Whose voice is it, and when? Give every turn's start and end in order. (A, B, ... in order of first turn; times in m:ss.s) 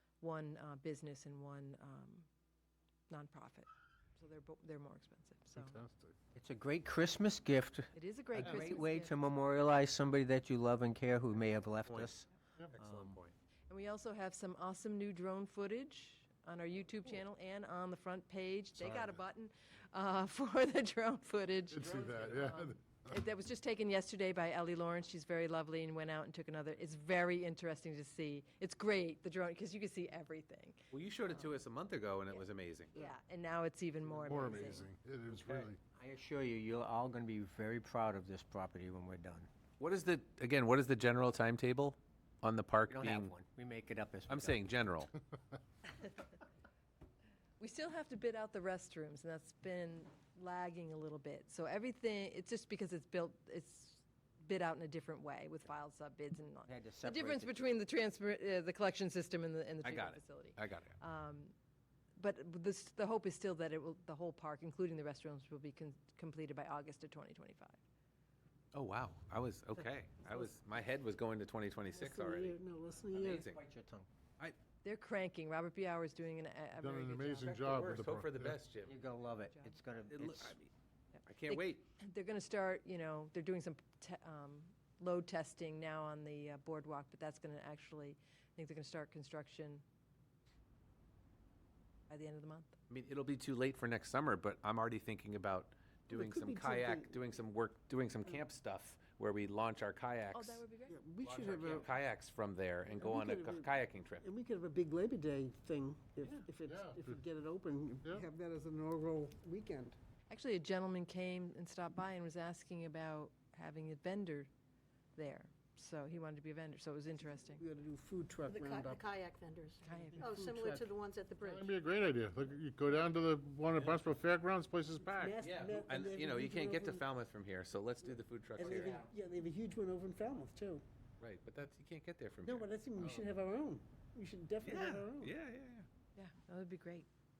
0:00.2-0:02.3 A
0:03.1-0:05.8 A
0:05.6-0:06.1 B
0:06.3-0:13.2 C
0:07.9-0:09.2 A
0:08.4-0:08.7 D
0:11.8-0:12.1 D
0:12.7-0:13.3 D
0:13.7-0:31.6 A
0:18.8-0:19.2 B
0:21.7-0:23.1 B
0:30.9-0:32.9 D
0:32.9-0:34.9 A
0:34.2-0:35.8 B
0:35.3-0:35.7 D
0:35.9-0:39.5 C
0:39.8-0:43.3 D
0:42.9-0:44.6 C
0:44.3-0:45.1 D
0:47.6-1:01.5 A
0:56.7-0:57.7 C
0:59.8-1:01.0 D
1:02.2-1:07.8 A
1:08.7-1:12.6 D
1:12.0-1:13.4 E
1:13.1-1:14.1 C
1:13.2-1:13.6 D
1:14.8-1:17.6 A
1:16.8-1:18.6 B
1:17.4-1:18.9 D
1:18.8-1:20.6 C
1:20.1-1:20.7 D
1:21.1-1:29.8 A
1:21.2-1:21.8 D
1:32.1-1:32.7 A
1:32.9-1:40.6 D
1:36.1-1:37.1 E
1:40.3-1:41.0 A
1:40.9-1:41.9 E
1:41.2-1:44.2 D
1:43.0-1:43.7 E
1:44.2-1:50.0 E
1:46.7-1:47.2 B
1:50.3-1:54.5 A
1:55.2-1:57.6 A
1:57.6-1:59.0 E
1:58.4-2:01.8 F
1:59.8-2:00.4 A
2:00.1-2:00.8 B
2:00.2-2:00.8 E
2:01.4-2:05.3 B
2:03.8-2:04.2 D
2:05.1-2:07.0 E
2:05.2-2:09.0 D
2:08.6-2:10.8 E
2:08.6-2:09.1 C
2:11.2-2:13.2 D
2:12.4-2:15.3 E
2:14.6-2:15.9 D
2:16.2-2:17.1 A